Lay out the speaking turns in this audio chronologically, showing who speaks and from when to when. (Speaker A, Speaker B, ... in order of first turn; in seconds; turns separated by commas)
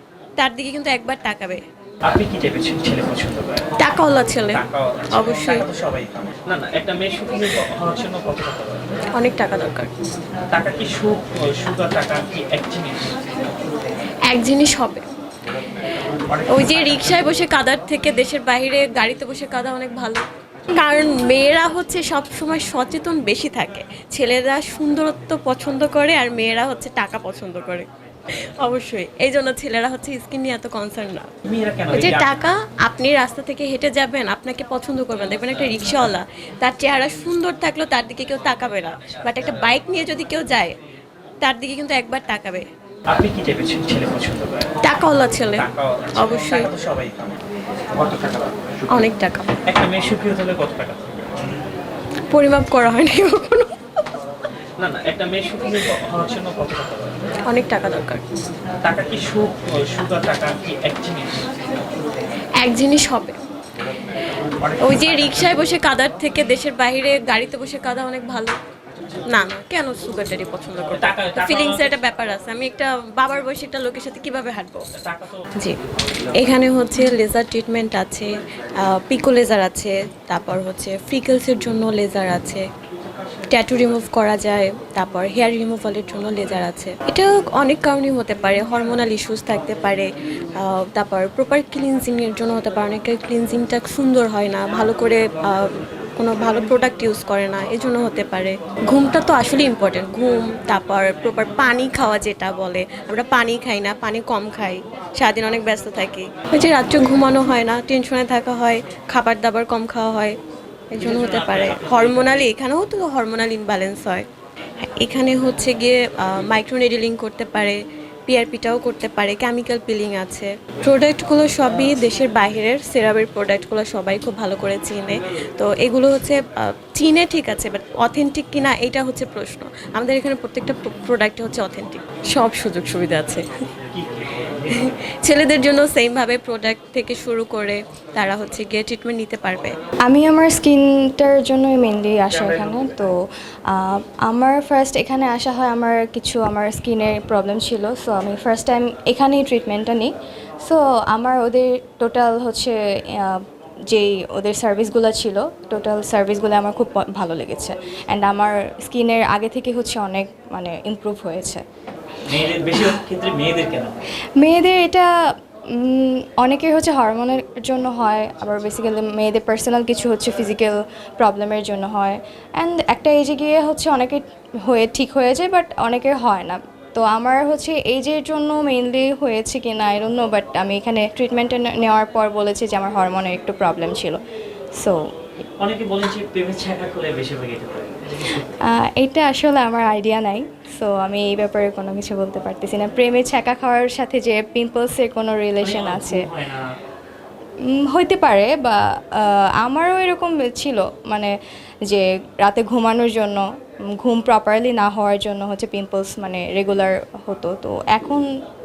Speaker A: 0.4-1.6, Speaker B: 2.1-3.7, Speaker A: 3.8-4.6, Speaker B: 4.5-8.8, Speaker A: 5.1-5.6, Speaker A: 9.2-9.9, Speaker B: 10.5-13.1, Speaker A: 14.3-15.1, Speaker B: 16.3-17.3, Speaker A: 16.5-20.2, Speaker A: 20.8-27.9, Speaker A: 28.6-31.3, Speaker B: 31.4-32.4, Speaker A: 31.9-40.8, Speaker A: 41.4-42.6, Speaker B: 43.1-44.7, Speaker A: 44.8-45.6, Speaker B: 45.6-47.4, Speaker A: 46.2-46.7, Speaker B: 48.0-49.0, Speaker A: 48.9-49.5, Speaker B: 49.7-51.4, Speaker A: 52.3-53.7, Speaker B: 54.8-57.2, Speaker A: 57.5-58.2, Speaker B: 58.8-61.4, Speaker A: 62.6-63.4, Speaker B: 64.6-65.6, Speaker A: 64.8-68.6, Speaker A: 69.3-74.9, Speaker B: 70.9-72.0, Speaker B: 74.9-75.5, Speaker A: 76.4-82.7, Speaker A: 83.5-110.4, Speaker A: 110.9-114.2, Speaker B: 111.0-112.5, Speaker A: 114.9-133.5, Speaker B: 133.9-134.9, Speaker A: 134.7-139.8, Speaker C: 140.1-143.1, Speaker B: 142.3-142.9, Speaker C: 143.7-150.1, Speaker C: 150.6-161.6, Speaker B: 162.3-164.0, Speaker C: 164.4-165.1, Speaker C: 165.8-184.2, Speaker B: 185.6-188.5, Speaker C: 188.6-196.3, Speaker B: 195.6-196.6, Speaker C: 197.9-201.3, Speaker C: 201.9-203.4, Speaker C: 204.0-208.2